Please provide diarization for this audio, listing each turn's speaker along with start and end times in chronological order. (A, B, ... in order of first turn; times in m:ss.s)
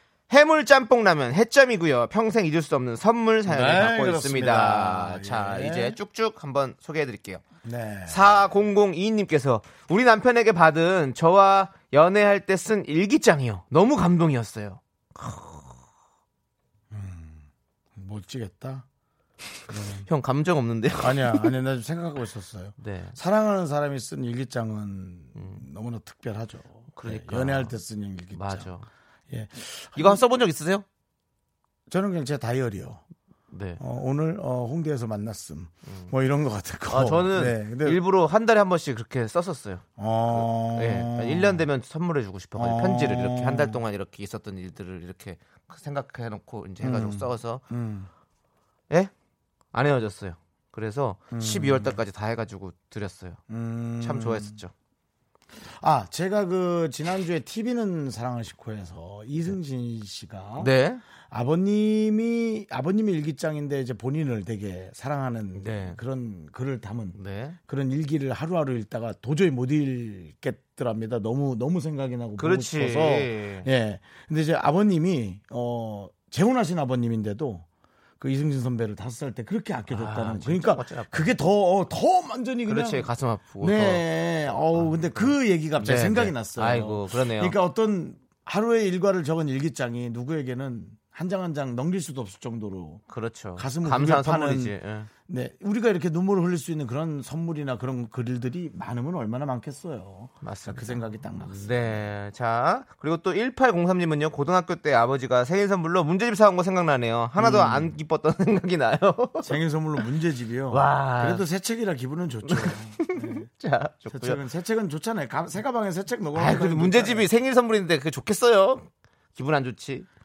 0:00.3-0:07.4 A
0:03.4-0:06.0 B
0:07.6-0:08.3 B
0:08.1-0:15.8 A
0:16.9-0:18.8 B
0:19.7-0:20.1 B
0:20.0-0:21.5 A
0:21.0-0:28.7 B
0:22.8-0:23.2 A
0:25.4-0:25.6 A
0:26.9-0:27.7 A
0:28.3-0:28.9 A
0:29.3-0:30.2 B
0:30.0-0:30.8 A
0:31.9-0:33.0 B
0:33.5-0:33.8 A
0:33.8-0:38.0 B
0:35.9-0:36.1 A
0:36.9-0:47.6 A
0:40.0-0:41.6 B
0:42.5-0:43.8 B
0:46.8-0:48.1 B
0:49.7-0:53.4 A
0:51.3-0:52.0 B
0:53.5-0:54.6 B
0:54.0-0:54.7 A
0:55.6-1:00.7 B
1:00.6-1:01.0 A
1:01.3-1:17.6 B
1:05.6-1:06.0 A
1:07.1-1:07.6 A
1:12.4-1:13.7 A
1:18.2-1:23.1 B
1:19.9-1:21.4 A
1:22.7-1:27.6 A
1:23.6-1:33.0 B
1:33.1-1:35.1 A
1:33.6-1:34.8 B
1:35.3-1:42.1 B
1:40.4-1:49.6 A
1:47.4-1:47.9 B
1:49.4-1:53.5 B
1:50.7-1:51.4 A
1:52.5-1:54.4 A
1:54.1-1:57.3 B
1:56.3-2:00.1 A